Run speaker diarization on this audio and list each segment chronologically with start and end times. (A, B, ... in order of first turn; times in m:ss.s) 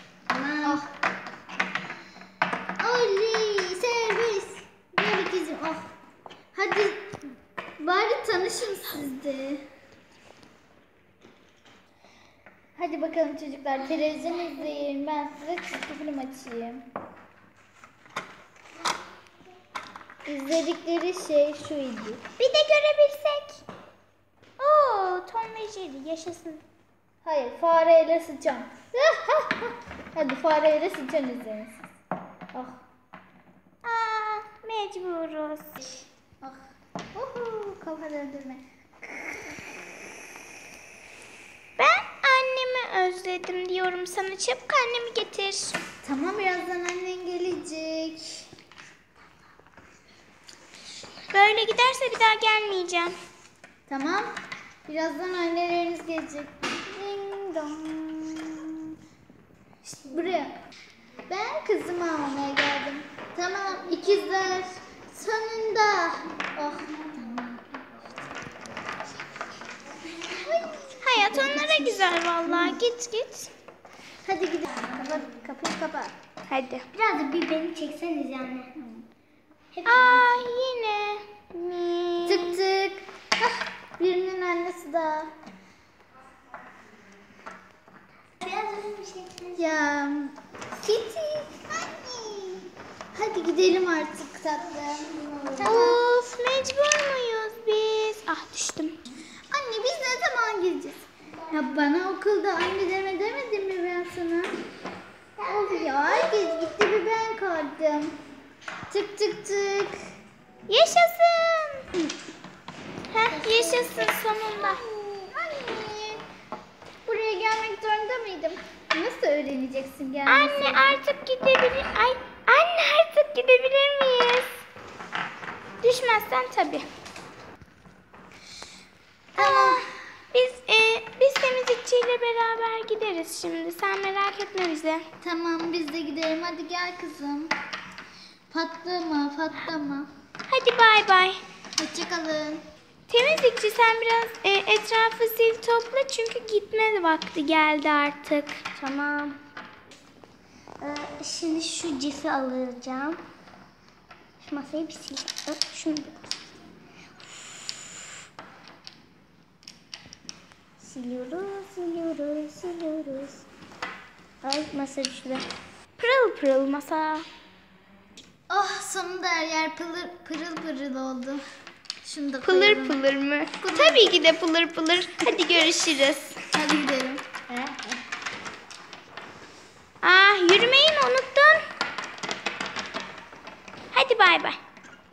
0:00.3-0:00.8 A
0:00.6-0:00.9 B
0:02.8-0:05.9 B
0:06.5-0:07.2 B
0:07.8-0:09.6 B
0:12.8-0:16.8 B
0:20.2-0:22.2 B
0:22.4-0:23.3 C
0:24.6-0:26.6 C
0:27.2-0:31.8 B
0:32.5-0:32.8 B
0:33.8-0:35.8 C
0:37.1-0:39.6 B
0:41.8-0:45.8 C
0:46.0-0:48.5 B
0:51.3-0:53.2 C
0:53.9-0:54.3 B
0:54.8-0:58.9 B
1:00.1-1:00.6 B
1:01.3-1:07.7 B
1:10.4-1:12.8 B
1:11.0-1:13.5 C
1:14.2-1:16.1 B
1:16.5-1:16.9 C
1:16.9-1:18.7 A
1:18.8-1:19.0 B
1:19.7-1:20.5 A
1:19.8-1:22.6 C
1:22.2-1:25.3 B
1:28.4-1:29.8 A
1:29.6-1:36.0 B
1:35.1-1:36.0 A
1:35.6-1:39.0 C
1:39.5-1:44.5 B
1:45.4-1:48.2 B
1:45.4-1:46.6 A
1:48.9-1:50.0 B
1:50.7-1:51.8 C
1:53.1-1:54.8 C
1:53.2-1:54.2 A
1:54.8-1:56.2 B
1:57.0-2:00.9 B
2:00.2-2:04.5 C
2:05.8-2:06.9 C
2:09.3-2:09.9 B
2:09.4-2:15.0 C
2:15.2-2:17.5 B
2:18.5-2:20.1 B
2:20.5-2:21.4 C
2:21.8-2:22.6 B
2:23.1-2:28.7 C
2:28.7-2:29.4 A
2:30.8-2:33.2 A
2:34.4-2:36.4 A
2:40.8-2:43.4 A
2:44.4-2:45.5 A
2:46.0-2:47.3 C
2:48.5-2:51.4 B
2:52.0-2:53.0 B
2:52.4-2:56.4 C
2:53.6-2:54.2 B
2:56.5-2:58.0 B
3:00.0-3:01.6 C
3:03.9-3:04.6 C